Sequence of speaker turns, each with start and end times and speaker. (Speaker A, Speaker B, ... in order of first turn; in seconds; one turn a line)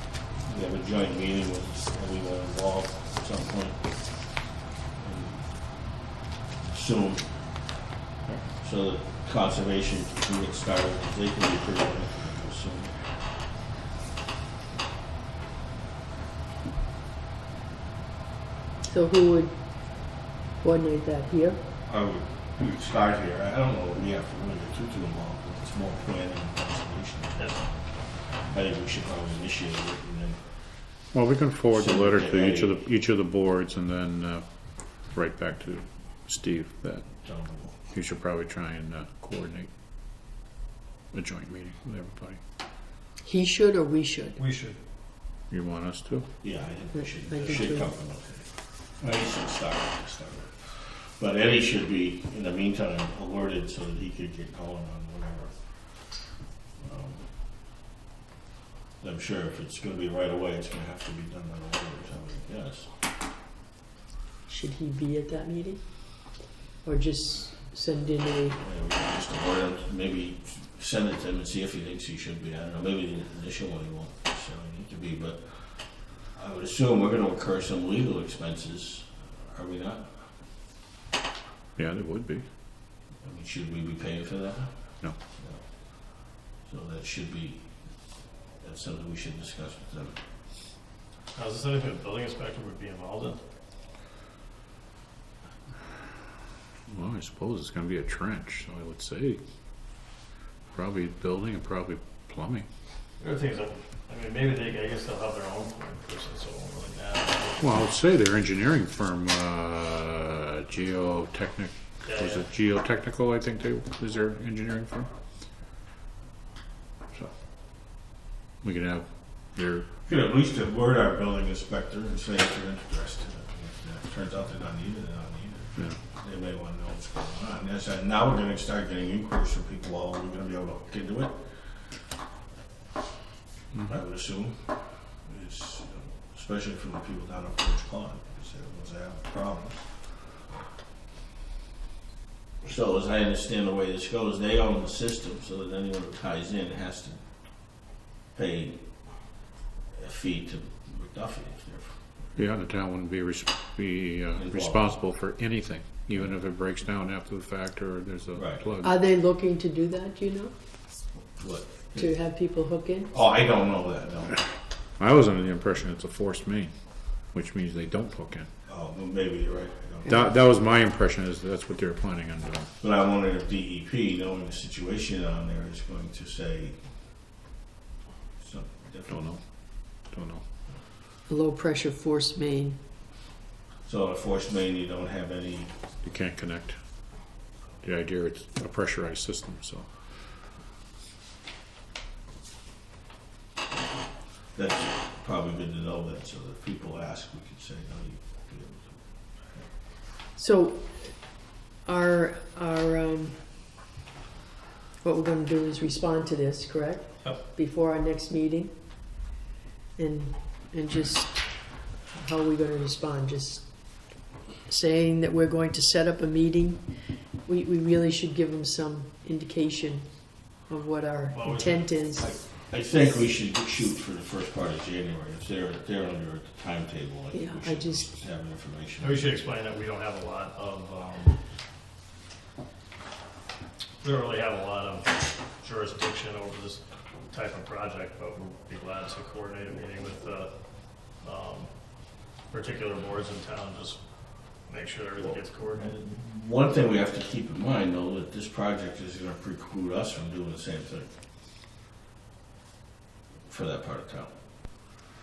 Speaker A: 0.5-4.5
Speaker A: 5.0-6.0
Speaker A: 6.7-7.8
Speaker A: 8.5-13.1
Speaker B: 18.9-21.6
Speaker A: 21.9-31.0
Speaker C: 27.4-27.6
Speaker D: 31.1-37.2
Speaker A: 31.7-32.7
Speaker A: 37.2-37.8
Speaker D: 37.8-39.7
Speaker D: 41.1-42.4
Speaker B: 43.2-44.4
Speaker C: 44.4-44.8
Speaker D: 45.5-46.3
Speaker A: 46.4-56.2
Speaker B: 46.9-47.9
Speaker A: 56.8-57.4
Speaker A: 59.0-62.9
Speaker B: 64.5-66.3
Speaker B: 66.8-68.6
Speaker A: 68.6-80.4
Speaker D: 81.8-82.5
Speaker A: 83.2-90.2
Speaker C: 91.3-93.4
Speaker D: 96.9-99.4
Speaker D: 100.7-102.7
Speaker C: 103.2-107.8
Speaker D: 107.6-115.1
Speaker C: 112.0-112.4
Speaker D: 118.6-119.9
Speaker A: 120.0-131.8
Speaker D: 133.7-134.0
Speaker A: 133.9-140.1
Speaker A: 142.6-147.8
Speaker A: 148.3-149.4
Speaker A: 149.9-152.3
Speaker D: 152.3-158.9
Speaker A: 154.3-155.0
Speaker A: 158.3-158.6
Speaker B: 158.8-160.5
Speaker A: 161.2-162.2
Speaker B: 161.9-163.1
Speaker A: 163.1-164.5
Speaker D: 165.0-168.5
Speaker A: 168.7-170.2
Speaker B: 170.0-170.3
Speaker D: 170.1-172.7
Speaker A: 172.8-176.9
Speaker A: 178.4-179.3
Speaker D: 179.1-180.4
Speaker B: 181.3-182.8
Speaker A: 183.8-185.9
Speaker D: 186.0-190.0
Speaker A: 194.5-199.7
Speaker B: 200.3-203.4
Speaker B: 205.0-208.7
Speaker B: 210.0-222.3
Speaker C: 221.3-221.9
Speaker A: 222.1-229.3
Speaker B: 227.3-228.1
Speaker C: 229.0-231.4
Speaker C: 234.0-245.9
Speaker A: 245.2-251.2
Speaker A: 253.4-254.3